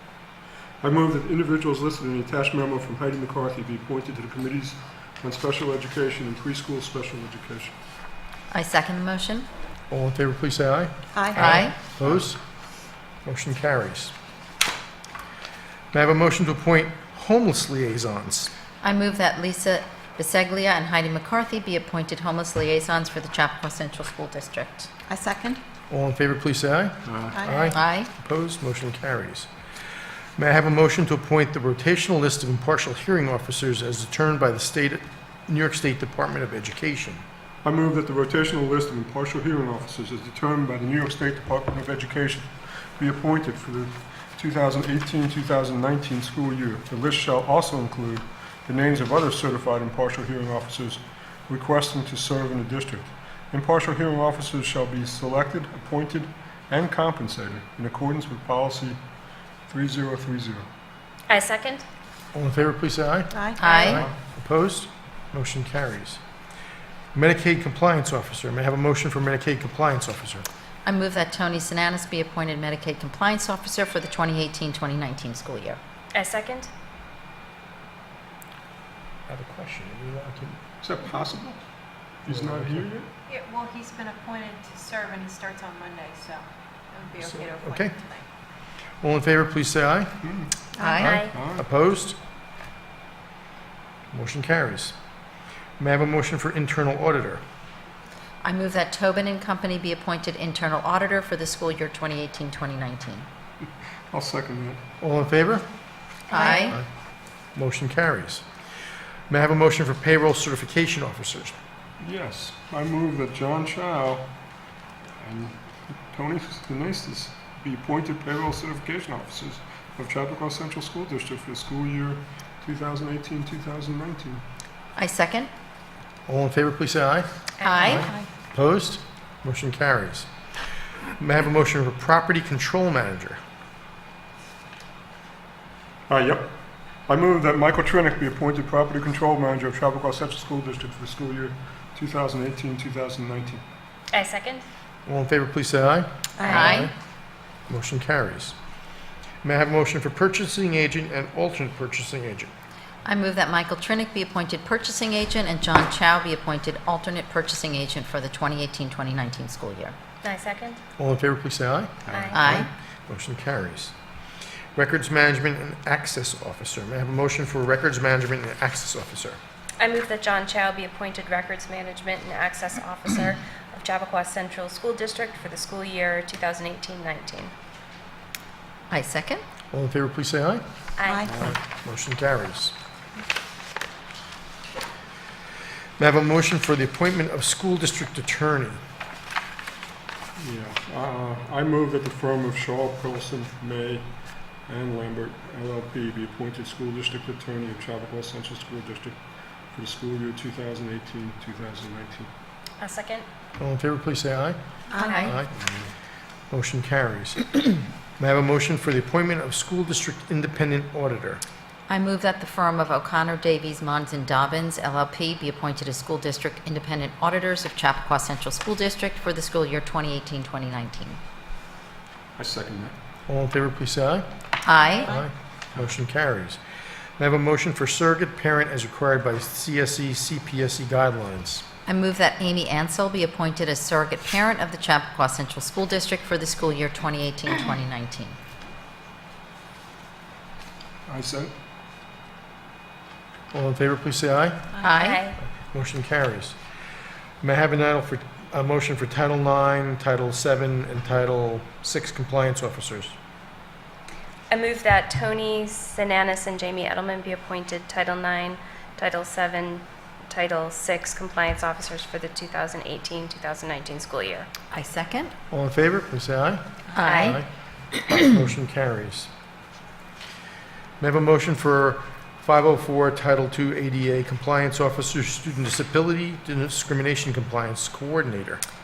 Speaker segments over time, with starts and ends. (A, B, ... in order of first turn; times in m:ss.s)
0:00.8-0:07.7 A
0:08.5-0:09.5 B
0:09.9-0:12.4 C
0:11.1-0:11.5 D
0:11.4-0:11.8 B
0:13.2-0:14.1 C
0:15.9-0:18.5 C
0:18.8-0:24.9 B
0:25.1-0:25.6 D
0:25.9-0:29.5 C
0:27.0-0:27.4 A
0:27.7-0:28.1 B
0:30.4-0:37.2 C
0:37.6-0:59.0 A
0:59.7-1:00.6 A
1:01.3-1:01.8 E
1:02.3-1:06.2 C
1:03.3-1:03.7 D
1:03.6-1:04.0 B
1:07.1-1:10.4 C
1:10.8-1:15.8 B
1:16.1-1:16.7 E
1:19.3-1:20.6 C
1:20.8-1:21.6 A
1:22.2-1:23.1 A
1:22.3-1:22.9 C
1:23.3-1:28.2 F
1:27.2-1:28.0 C
1:29.0-1:30.1 C
1:30.2-1:30.5 A
1:30.8-1:31.1 D
1:30.8-1:31.1 B
1:31.0-1:31.3 E
1:31.0-1:32.2 C
1:31.3-1:31.6 A
1:34.1-1:34.9 C
1:35.8-1:37.4 C
1:38.4-1:43.2 B
1:44.1-1:44.8 A
1:45.0-1:45.6 C
1:46.3-1:46.8 B
1:46.4-1:46.8 C
1:47.5-1:48.4 C
1:49.3-1:51.6 C
1:52.0-1:54.2 A
1:55.2-1:55.6 A
1:56.1-2:04.4 A
2:05.0-2:05.5 B
2:06.3-2:07.3 C
2:07.6-2:08.0 E
2:07.6-2:08.1 B
2:07.8-2:10.3 C
2:11.2-2:13.4 C
2:16.1-2:16.5 A
2:17.1-2:23.6 A
2:24.1-2:24.6 E
2:25.0-2:26.9 C
2:26.4-2:26.9 B
2:27.7-2:28.5 C
2:29.4-2:32.5 C
2:33.0-2:39.9 B
2:40.2-2:40.8 E
2:41.0-2:43.9 C
2:42.1-2:42.3 A
2:42.1-2:42.4 E
2:42.3-2:42.7 B
2:44.7-2:49.4 C
2:49.8-2:57.5 E
2:58.9-2:59.4 B
2:59.7-3:00.6 C
3:01.0-3:01.3 E
3:01.4-3:02.7 C
3:06.0-3:08.8 C
3:10.4-3:14.0 A
3:14.6-3:19.2 A
3:19.7-3:22.3 A
3:22.8-3:23.2 E
3:23.6-3:24.6 C
3:24.9-3:25.2 D
3:25.0-3:25.3 E
3:25.2-3:25.5 C
3:25.6-3:25.9 A
3:26.5-3:31.4 C
3:31.9-3:41.2 B
3:42.4-3:42.9 A
3:43.3-3:44.3 C
3:44.6-3:45.2 B
3:45.0-3:46.6 C
3:47.2-3:51.6 C
3:51.8-3:58.3 B
4:01.1-4:01.5 A
4:03.5-4:04.7 C
4:04.8-4:05.2 B
4:04.9-4:05.4 E
4:05.7-4:06.6 C
4:07.4-4:13.1 C
4:14.5-4:24.5 E
4:24.7-4:25.3 B
4:25.5-4:27.5 C
4:26.9-4:27.4 B
4:27.0-4:27.4 E
4:28.0-4:29.3 C
4:31.0-4:38.6 C